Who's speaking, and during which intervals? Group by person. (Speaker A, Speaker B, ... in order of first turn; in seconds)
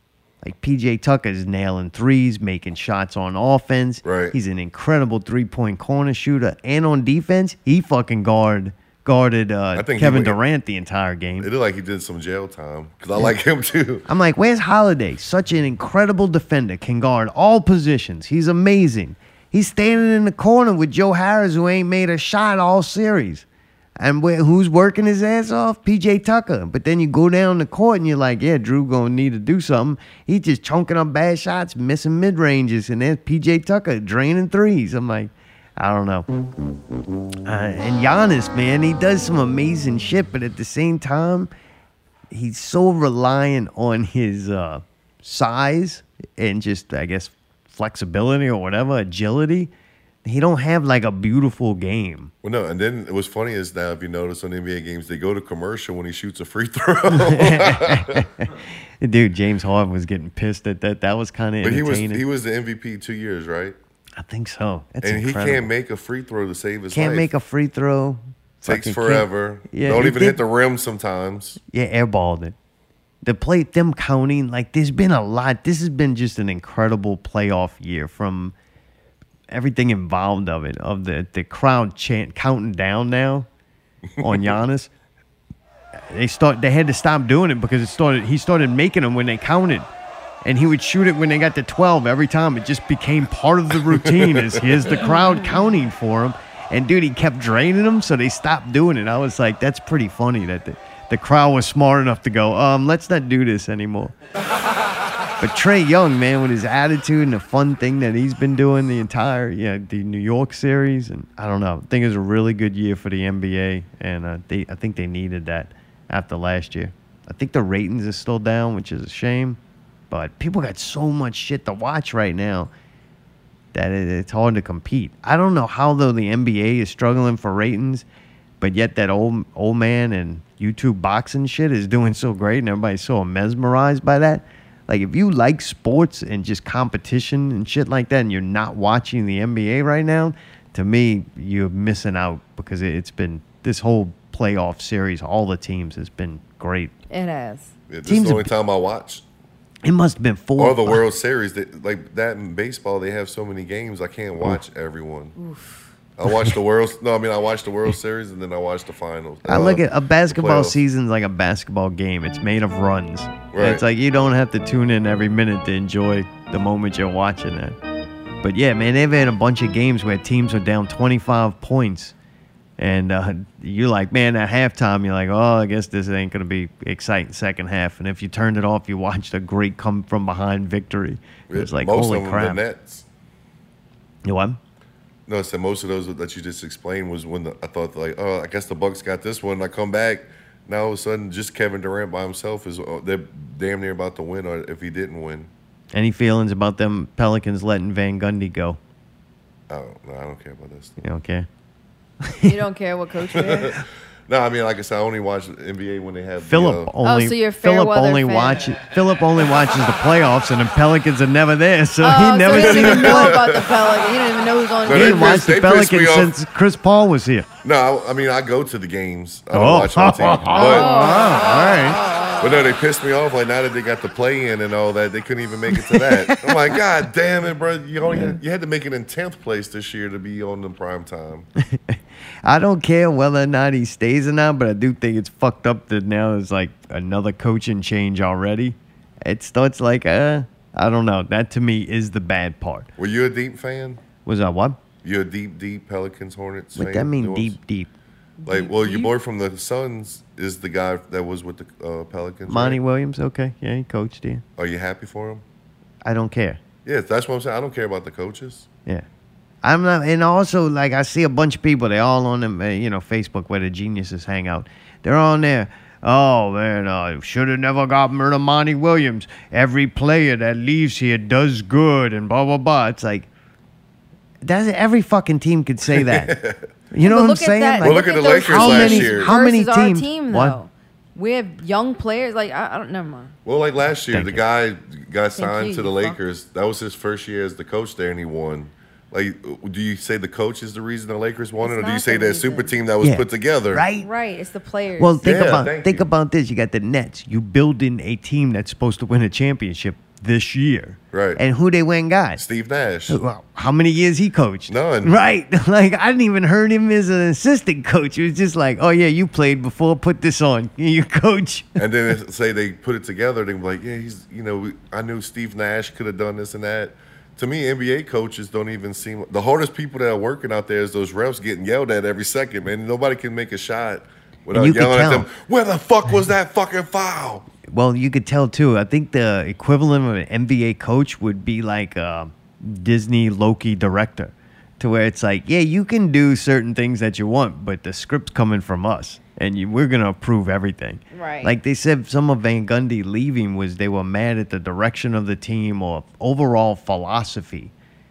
Speaker A: 0.4-11.5, 14.1-23.4, 24.0-36.2, 37.4-41.5, 42.3-49.7, 50.2-52.3, 57.1-62.2, 64.2-65.7, 66.9-70.4, 71.7-72.5, 73.2-78.5, 79.5-83.5, 84.2-84.9, 86.1-89.9, 90.4-104.1, 105.4-119.6, 120.1-122.7, 123.7-128.0, 128.6-146.9, 148.1-148.5, 149.8-151.0, 159.5-167.8, 168.4-172.1, 172.8-182.6, 184.2-184.6, 195.9-198.8, 201.0-201.5, 202.2-202.6, 206.4-213.4, 214.9-217.5, 219.5-222.0, 225.8-226.5, 228.0-228.4, 231.6-242.9, 244.2-244.8, 246.7-247.9, 252.5-254.4, 256.0-256.6, 259.6-273.3, 274.4-276.3, 276.9-280.6, 284.1-284.4, 293.0-294.1, 295.0-302.4, 303.1-311.8, 324.5-325.3, 327.7-347.7
Speaker B: 4.0-4.4, 9.7-10.4, 11.4-14.1, 52.4-58.3, 61.6-63.8, 65.0-67.3, 68.7-71.6, 84.2-84.6, 93.8-94.9, 147.9-149.2, 150.6-155.3, 156.2-160.8, 163.5-163.8, 181.5-183.1, 185.3-195.5, 199.7-201.0, 203.3-206.9, 212.5-213.8, 214.8-216.3, 217.6-220.9, 222.4-231.5, 243.0-244.0, 245.0-247.6, 248.4-252.8, 254.6-255.4, 256.8-258.7, 275.9-276.7, 277.8-279.3, 283.4-293.8, 295.2-296.1, 301.1-301.4, 302.4-303.2, 304.7-305.1, 311.8-327.4
Speaker C: 95.0-95.7, 147.1-147.7, 155.4-155.7, 202.4-203.8, 207.0-208.7, 212.0-215.4, 220.5-222.7, 248.4-249.1, 277.0-283.3, 285.4-286.2, 291.6-292.8, 293.9-295.2, 341.1-341.5